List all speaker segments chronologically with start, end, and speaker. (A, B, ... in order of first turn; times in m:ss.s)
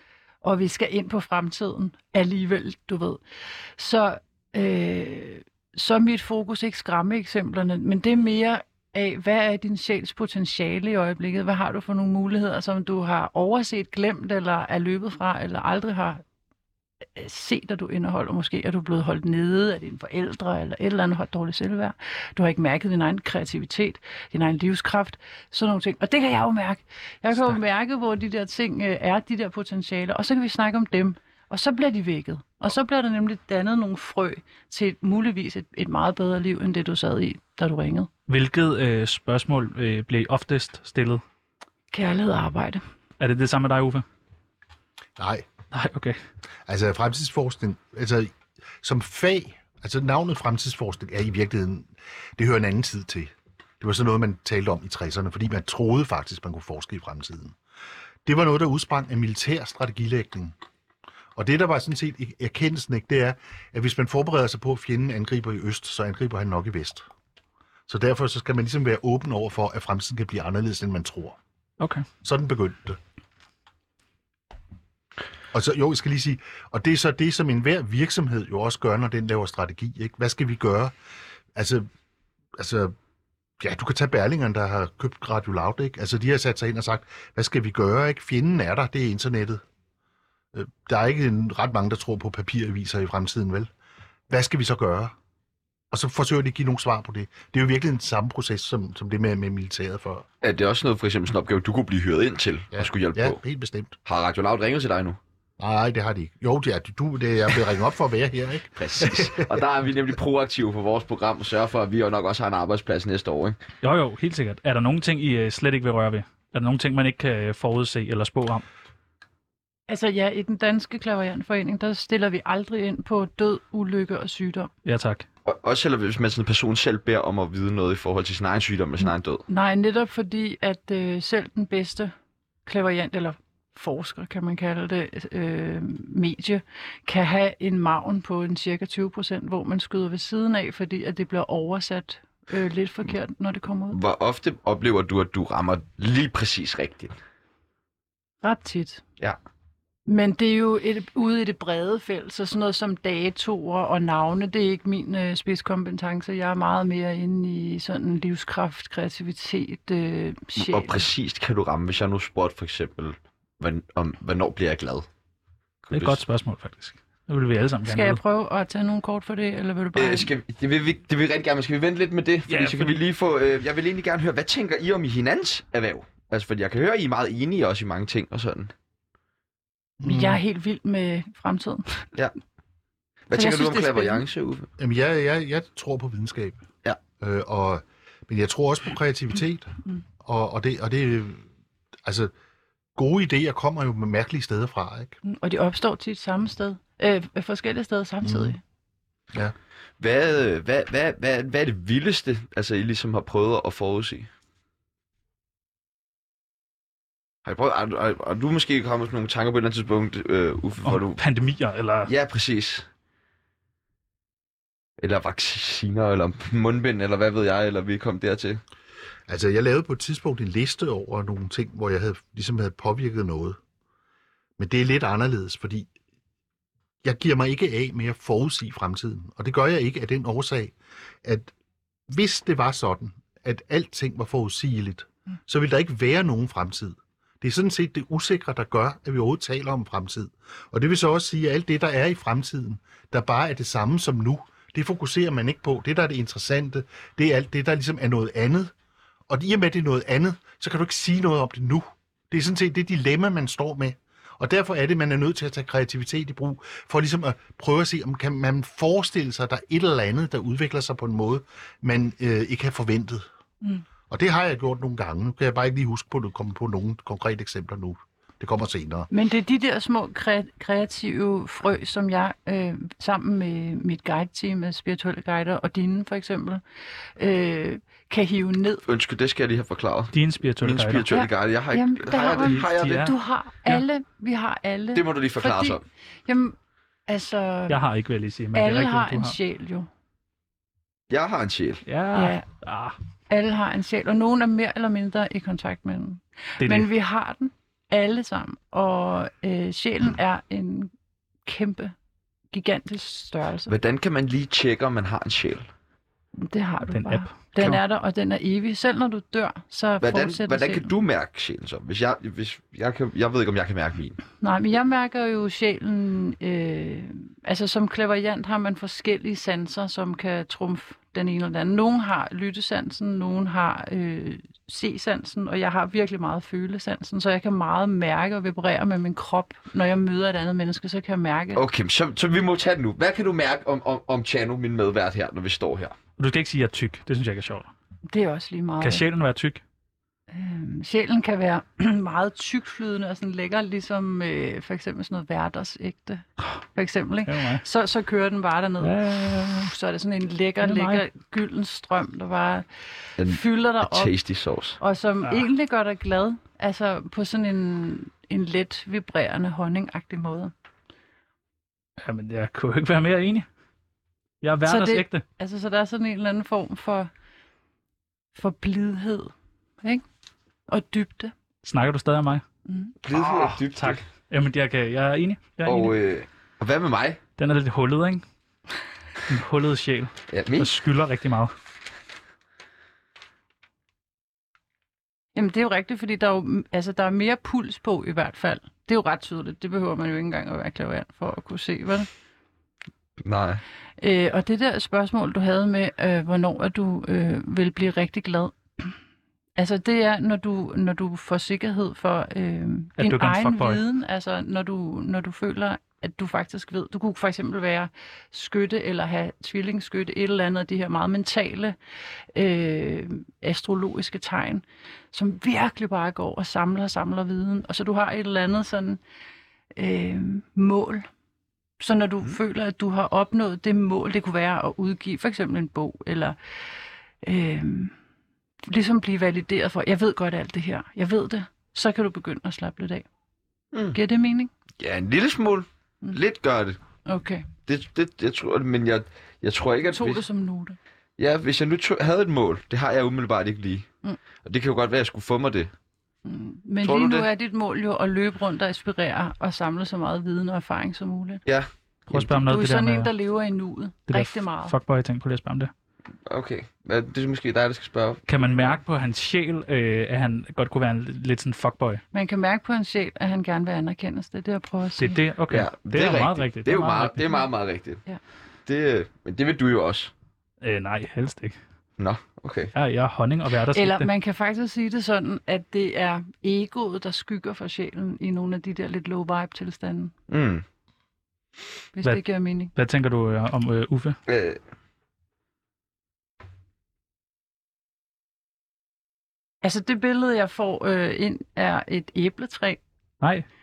0:00.4-0:03.2 A
0:03.8-0:16.2 A
0:17.2-0:38.1 A
0:38.3-0:41.2 B
0:41.9-0:42.8 A
0:43.2-0:44.0 B
0:45.2-0:45.5 C
0:45.7-0:46.2 B
0:46.7-0:57.6 C
0:58.2-1:00.6 C
1:01.4-1:07.0 C
1:07.9-1:11.4 C
1:11.8-1:12.1 B
1:12.2-1:13.0 C
1:15.5-1:20.9 C
1:21.6-1:21.9 C
1:22.6-1:23.0 C
1:23.6-1:29.6 C
1:30.5-1:33.7 C
1:34.3-1:35.2 C
1:35.9-1:40.3 C
1:40.4-1:43.4 D
1:42.7-1:44.0 C
1:44.1-1:45.2 D
1:45.6-1:49.6 C
1:48.8-1:53.6 D
1:53.8-1:58.6 B
1:59.9-2:04.7 A
2:04.8-2:05.3 B
2:05.4-2:09.4 D
2:09.5-2:12.1 A
2:12.7-2:24.0 A
2:23.9-2:27.2 D
2:28.4-2:29.0 A
2:30.1-2:41.0 A
2:40.6-2:45.1 D
2:45.8-2:46.2 D
2:45.9-2:48.2 B
2:47.9-2:50.3 A
2:50.0-2:58.7 D
2:52.5-2:53.0 B
3:00.0-3:00.4 C
3:00.0-3:02.1 A
3:03.3-3:04.7 D
3:03.3-3:04.2 A
3:04.8-3:06.6 C
3:07.2-3:11.4 C
3:12.0-3:12.3 C
3:13.0-3:15.2 C
3:15.2-3:18.6 A
3:18.2-3:18.6 C
3:20.0-3:24.3 D
3:27.4-3:31.2 D
3:30.8-3:32.1 B
3:32.1-3:32.9 D
3:35.0-3:38.6 D
3:39.3-3:43.6 C
3:44.6-3:45.9 C
3:47.0-3:51.5 C
3:52.1-4:08.7 C
4:09.3-4:23.3 C
4:24.1-4:29.1 C
4:29.1-4:36.6 A
4:37.2-4:38.8 A
4:38.8-4:43.1 D
4:40.1-4:41.1 B
4:41.1-4:46.6 A
4:42.4-4:43.1 B
4:45.0-4:45.8 D
4:47.1-4:47.8 A
4:47.7-4:49.4 B
4:48.5-4:49.9 A
4:51.1-4:51.8 D
4:51.9-4:53.0 B
4:52.1-4:52.4 A
4:53.3-5:00.9 A
4:56.6-4:56.9 B
5:01.5-5:01.9 A
5:02.5-5:03.7 A
5:03.7-5:05.7 D
5:06.4-5:10.9 A
5:06.9-5:07.8 B
5:10.0-5:14.2 D
5:14.4-5:31.6 A
5:31.6-5:36.0 D
5:36.2-5:37.7 B
5:38.1-5:39.0 A
5:38.8-5:39.6 B
5:40.3-5:52.7 A
5:47.3-5:47.6 B
5:48.8-5:49.7 B
5:50.6-5:51.0 B
5:53.2-5:54.8 D
5:53.2-5:54.1 A
5:54.8-6:00.5 A
6:02.0-6:03.5 B
6:04.4-6:05.2 B
6:04.6-6:07.1 A
6:08.4-6:10.0 A
6:10.7-6:11.3 A
6:11.6-6:12.4 B
6:12.7-6:12.9 A
6:13.0-6:14.0 D
6:13.1-6:15.9 B
6:15.6-6:17.2 D
6:17.4-6:18.2 B
6:19.3-6:21.5 B
6:20.3-6:20.7 D
6:25.4-6:32.1 A
6:33.2-6:33.6 D
6:34.0-6:39.0 A
6:39.6-6:51.8 A
6:43.0-6:43.8 B
6:52.3-6:59.0 A
6:59.8-7:01.1 A
7:01.8-7:06.4 A
7:07.2-7:07.9 A
7:08.7-7:13.0 A
7:13.9-7:14.5 A
7:14.8-7:16.8 D
7:17.1-7:17.5 A
7:17.7-7:20.2 D
7:19.9-7:20.8 A
7:21.2-7:23.9 D
7:24.4-7:25.7 D
7:26.2-7:31.4 A
7:26.8-7:27.3 D
7:32.1-7:33.1 B
7:32.2-7:34.8 A
7:34.1-7:35.7 B
7:36.3-7:38.8 D
7:38.3-7:42.0 B
7:42.1-7:45.2 A
7:45.0-7:47.4 B
7:45.5-7:48.0 D
7:48.7-7:50.1 D
7:50.6-7:51.6 B
7:52.0-7:52.7 D
7:52.8-7:54.1 B
7:53.7-8:00.1 A
8:00.3-8:00.6 D
8:01.9-8:02.7 A
8:02.7-8:04.2 B
8:04.3-8:04.6 D
8:09.6-8:12.8 A
8:13.2-8:13.5 B